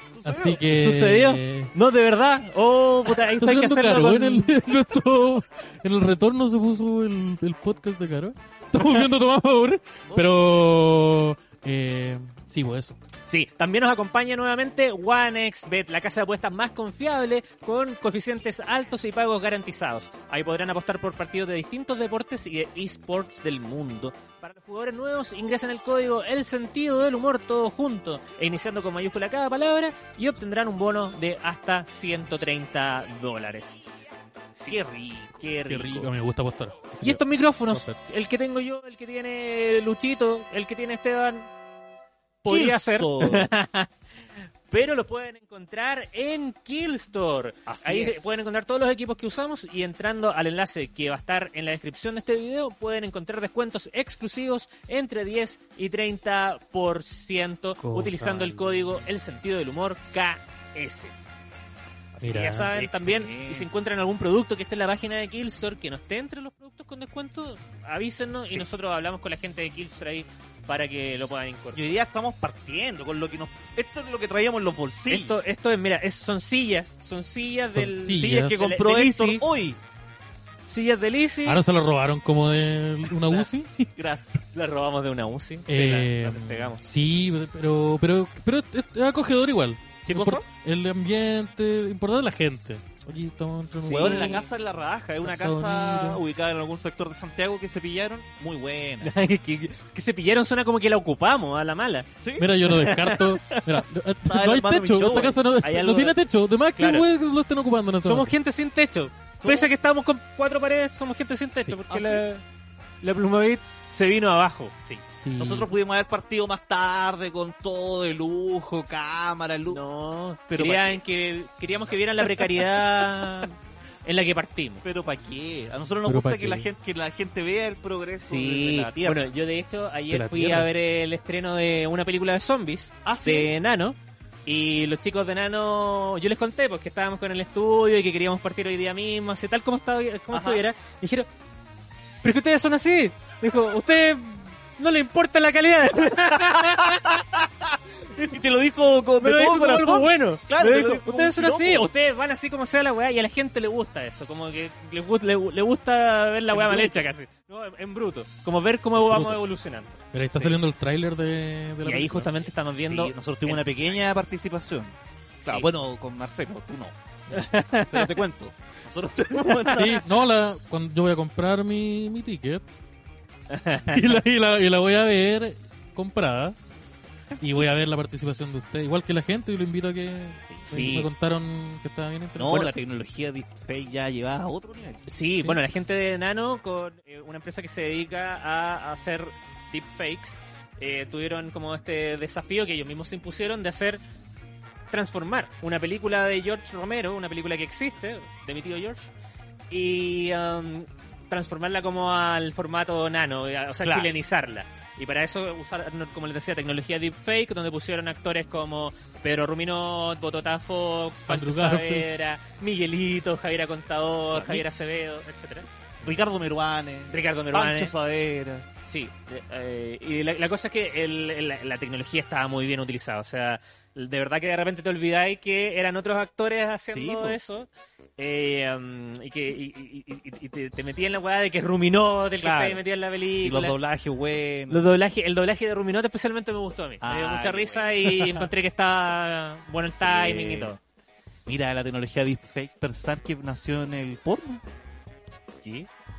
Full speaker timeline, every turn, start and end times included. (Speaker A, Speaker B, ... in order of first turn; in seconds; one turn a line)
Speaker A: 0.1-0.6
Speaker B: 0.2-1.7
Speaker C: 0.7-4.5
Speaker B: 3.2-13.0
Speaker A: 10.1-10.4
Speaker C: 13.3-33.8
Speaker A: 34.6-35.5
Speaker C: 35.4-36.1
Speaker B: 35.7-38.0
Speaker C: 37.0-41.5
Speaker C: 42.4-43.9
Speaker A: 42.5-43.5
Speaker C: 44.7-61.1
Speaker A: 47.6-48.4
Speaker B: 57.8-58.9
Speaker C: 62.1-71.9
Speaker B: 62.2-62.7
Speaker A: 62.7-63.7
Speaker A: 71.7-75.4
Speaker C: 75.1-79.4
Speaker B: 77.7-78.6
Speaker A: 78.1-79.8
Speaker C: 80.7-81.6
Speaker B: 81.5-83.9
Speaker A: 83.3-84.4
Speaker C: 84.5-86.8
Speaker B: 85.7-94.4
Speaker A: 90.0-90.5
Speaker A: 93.9-99.1
Speaker C: 93.9-94.4
Speaker B: 95.2-96.2
Speaker C: 99.0-102.1
Speaker A: 102.2-105.4
Speaker B: 102.4-108.3
Speaker C: 102.7-103.2
Speaker C: 105.6-106.1
Speaker C: 106.8-107.0
Speaker C: 108.0-112.4
Speaker A: 109.4-109.7
Speaker A: 111.9-112.2
Speaker C: 113.0-114.7
Speaker A: 114.8-119.8
Speaker B: 115.2-115.7
Speaker C: 119.7-124.8
Speaker A: 120.5-121.0
Speaker A: 124.8-129.3
Speaker B: 126.0-126.7
Speaker C: 128.2-141.3
Speaker B: 130.1-130.7
Speaker A: 133.0-133.5
Speaker A: 140.3-140.6
Speaker C: 142.2-147.2
Speaker A: 146.2-151.9
Speaker C: 149.2-160.6
Speaker A: 156.5-157.0
Speaker B: 159.0-159.4
Speaker B: 160.1-162.3
Speaker C: 161.8-163.8
Speaker A: 162.8-170.0
Speaker C: 165.4-165.7
Speaker C: 167.3-168.2
Speaker B: 169.7-172.6
Speaker C: 173.5-174.2
Speaker B: 173.9-176.6
Speaker B: 177.4-182.7
Speaker C: 180.4-181.1
Speaker A: 182.3-185.0
Speaker C: 185.1-194.0
Speaker C: 194.9-199.1
Speaker C: 199.7-215.7
Speaker A: 203.8-204.1
Speaker B: 211.3-212.1
Speaker A: 214.3-214.7
Speaker A: 216.0-218.7
Speaker C: 217.1-217.9
Speaker C: 218.8-233.8
Speaker A: 226.9-227.4
Speaker A: 232.4-232.8
Speaker A: 233.4-234.9
Speaker C: 234.7-240.8
Speaker A: 237.0-238.4
Speaker A: 239.9-240.7
Speaker A: 241.5-244.6
Speaker C: 245.6-245.9